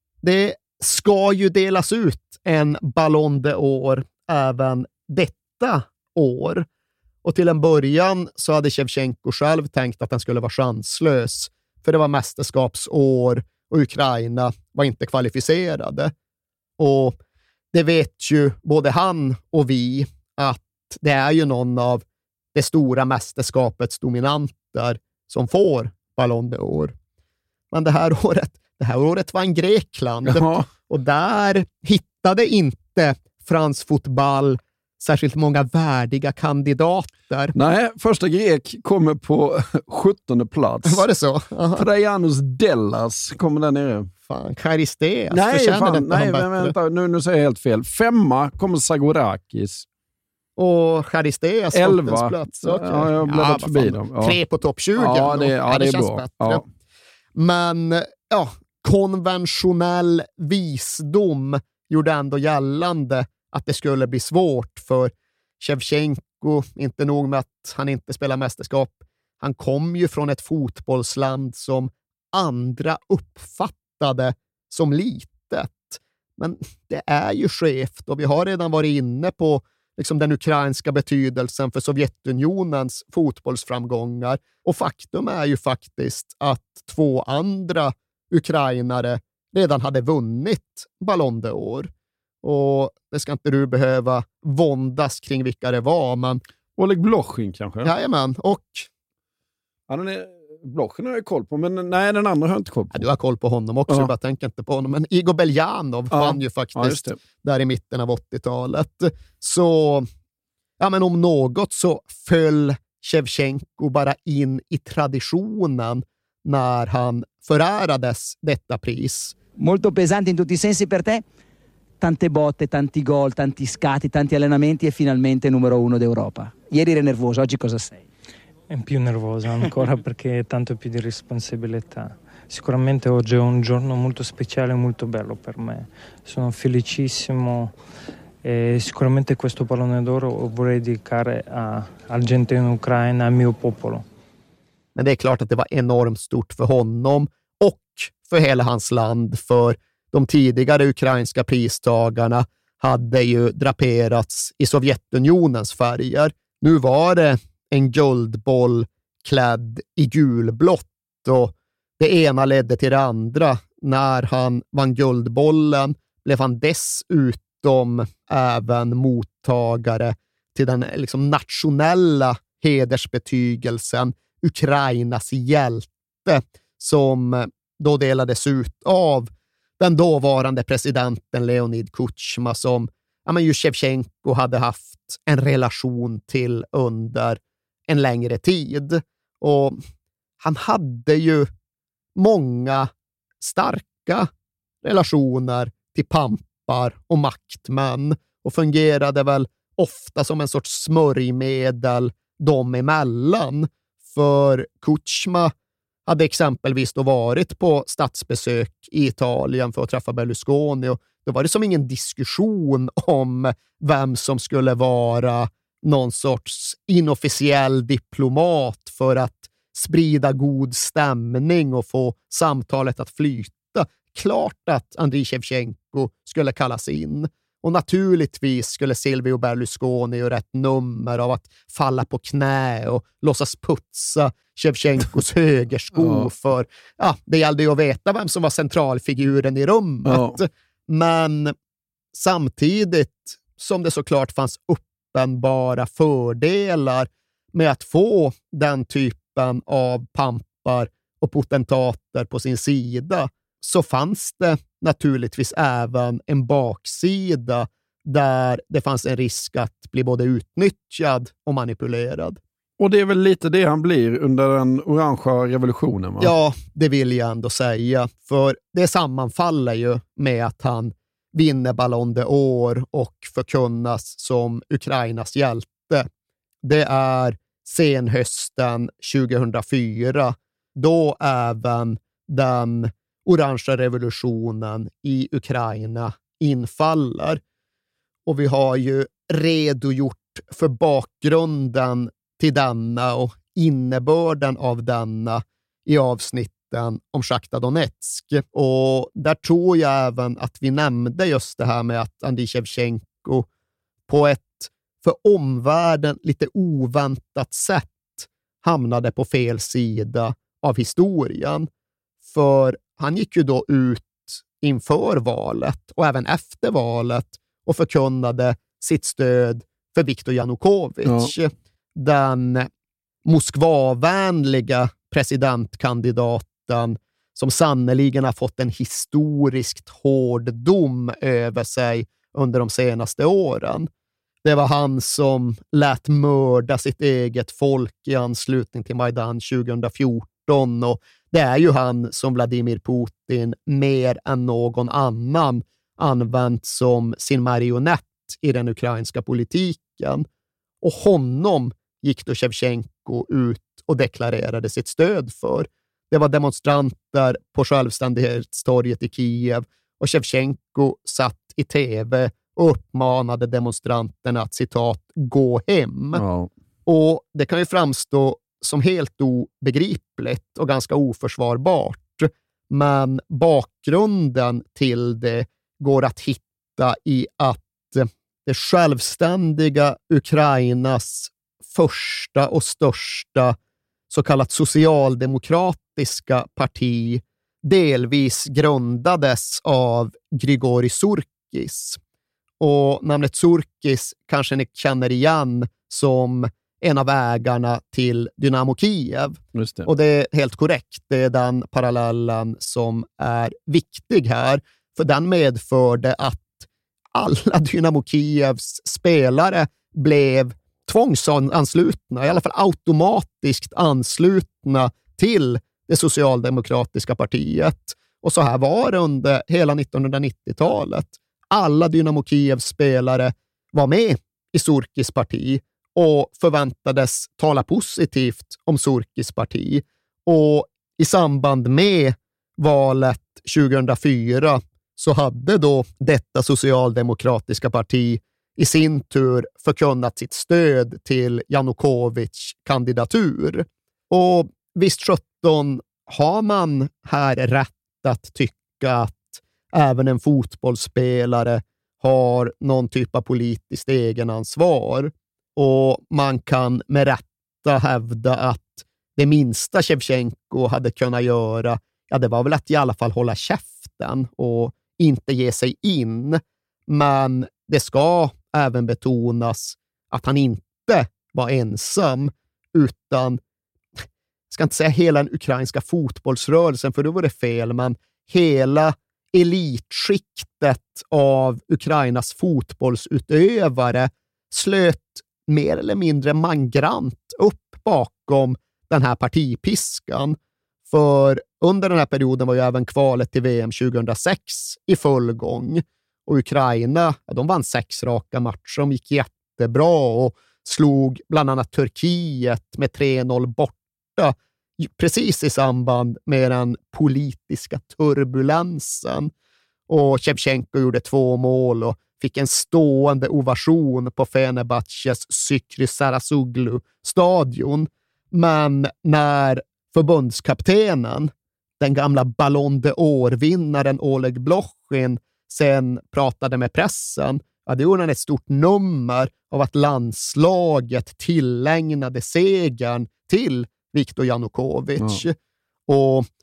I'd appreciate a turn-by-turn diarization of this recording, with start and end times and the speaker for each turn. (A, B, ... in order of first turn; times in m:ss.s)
0:00.2-0:06.6 A
0:07.2-0:16.1 A
0:16.8-0:17.2 A
0:17.7-0:26.9 A
0:27.7-0:37.5 A
0:30.2-0:30.7 B
0:37.5-0:41.0 B
0:40.8-0:41.8 A
0:41.8-0:44.1 B
0:44.3-0:46.7 A
0:45.3-0:49.8 B
0:50.6-0:56.6 A
0:51.7-0:54.4 B
0:55.0-0:56.6 B
0:57.4-1:31.9 A
1:32.4-1:36.4 A
1:36.8-1:37.9 B
1:37.8-1:38.9 A
1:39.9-1:43.0 B
1:42.9-1:50.1 A
1:46.1-1:47.2 B
1:50.8-1:59.3 A
1:59.6-2:01.2 C
2:02.0-2:08.0 C
2:08.7-2:17.7 D
2:18.4-2:24.0 D
2:25.0-3:09.8 A
3:10.4-3:11.5 A
3:12.2-3:14.3 A
3:14.8-3:25.5 A
3:26.1-4:01.5 A
3:56.0-3:56.3 B
4:00.0-4:00.4 B
4:02.1-4:22.4 A
4:22.8-4:26.3 B
4:26.2-4:36.1 A
4:36.6-4:47.4 A
4:48.3-5:03.4 A
5:04.1-5:11.7 A
5:12.2-5:22.7 A
5:21.0-5:21.3 B
5:23.2-5:33.9 A
5:34.4-5:50.2 A
5:50.8-6:06.2 A
6:06.1-6:06.5 B
6:06.8-6:23.6 A
6:24.1-6:32.0 A
6:32.6-7:53.4 A
6:39.5-6:39.9 B
7:54.5-8:10.4 A
8:10.9-8:29.3 A
8:29.9-8:55.3 A
8:55.9-8:56.2 A